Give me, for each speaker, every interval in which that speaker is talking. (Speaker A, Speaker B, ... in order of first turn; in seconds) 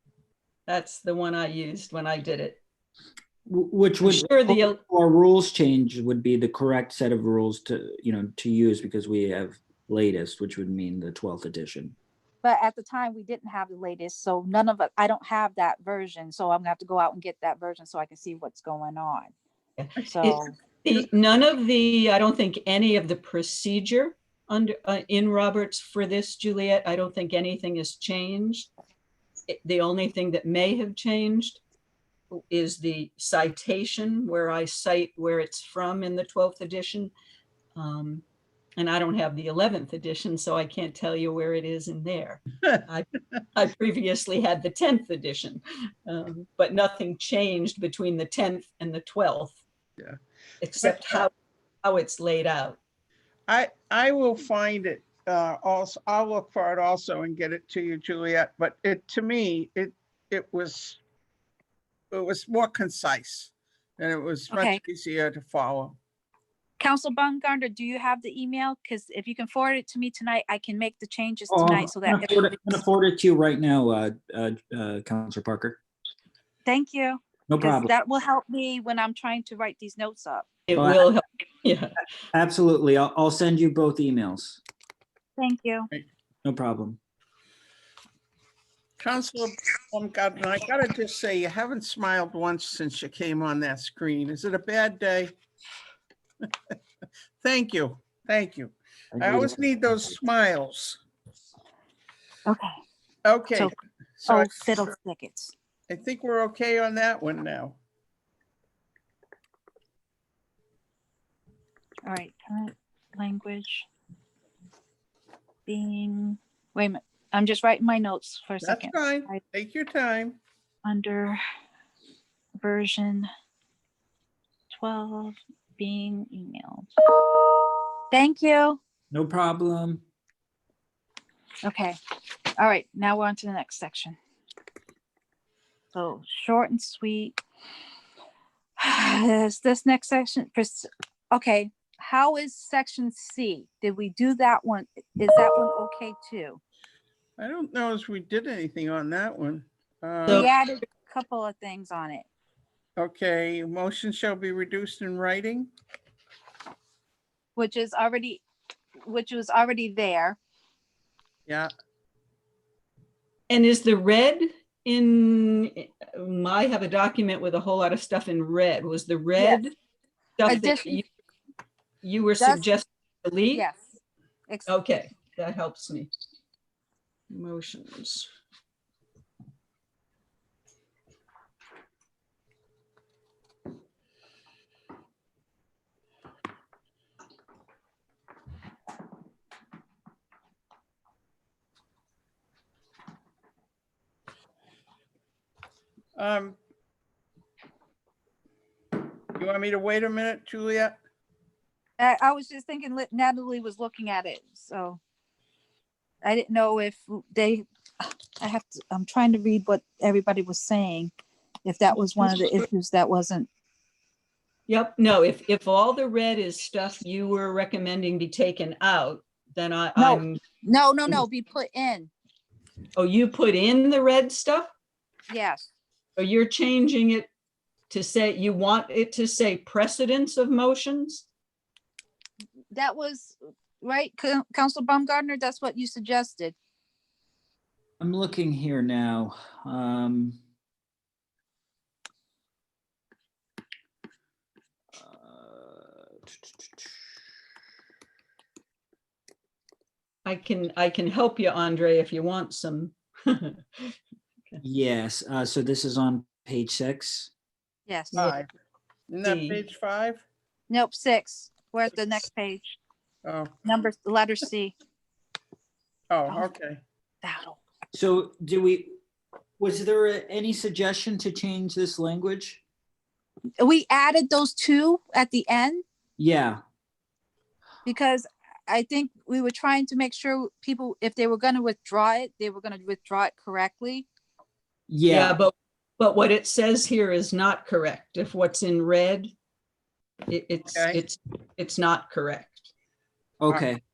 Speaker A: 0.7-2.6, 4.0-4.8, 19.8-28.7, 29.5-31.6, 32.3-37.1, 37.7-38.2, 38.8-49.6, 50.6-52.8, 80.7-81.9, 163.5-169.7, 170.4-171.0, 172.0-173.7, 174.7-176.1, 177.3-178.3, 214.7-220.4, 222.9-224.7, 226.2-227.3, 227.9-231.2, 250.2-253.9, 259.2-259.6, 285.1-289.3, 290.3-292.7
Speaker B: 3.5-11.9, 71.5-75.8, 77.5-77.9, 80.7-81.1, 82.3-84.6, 86.4-87.0, 99.2-99.5, 129.1-130.0, 238.0-240.4, 244.9-246.0, 254.6-257.3, 267.9-269.0, 269.6-272.6, 276.2-276.6, 284.9-285.4, 293.4-293.8
Speaker C: 12.4-19.3, 20.1-20.5, 64.5-64.8, 66.8-72.8, 76.7-80.5, 85.4-85.9, 104.3-105.5, 112.0-113.9, 115.7-119.4, 120.8-121.4, 122.6-123.3, 124.8-126.9, 128.1-128.8, 131.6-131.9, 132.6-134.2, 135.9-137.4, 138.8-146.6, 150.3-152.3, 157.6-158.4, 159.0-160.4, 170.4-171.0, 172.4-172.7, 173.5-174.0, 202.0-205.0, 206.2-211.1, 211.6-213.5, 220.0-222.1, 225.3-225.7, 232.7-236.6, 257.9-258.3, 260.7-262.8, 263.6-264.7, 267.2-267.6, 273.6-275.8, 277.8-284.1
Speaker D: 50.8-51.2, 53.5-61.0, 62.1-66.0, 89.0-95.3, 96.4-96.7, 97.4-101.0, 103.2-104.8, 105.9-107.8, 118.6-120.4, 147.4-150.5, 153.0-155.7, 196.2-196.6, 199.3-201.0, 258.1-258.5, 259.1-260.2, 263.2-263.6, 266.1-266.8, 290.7-291.0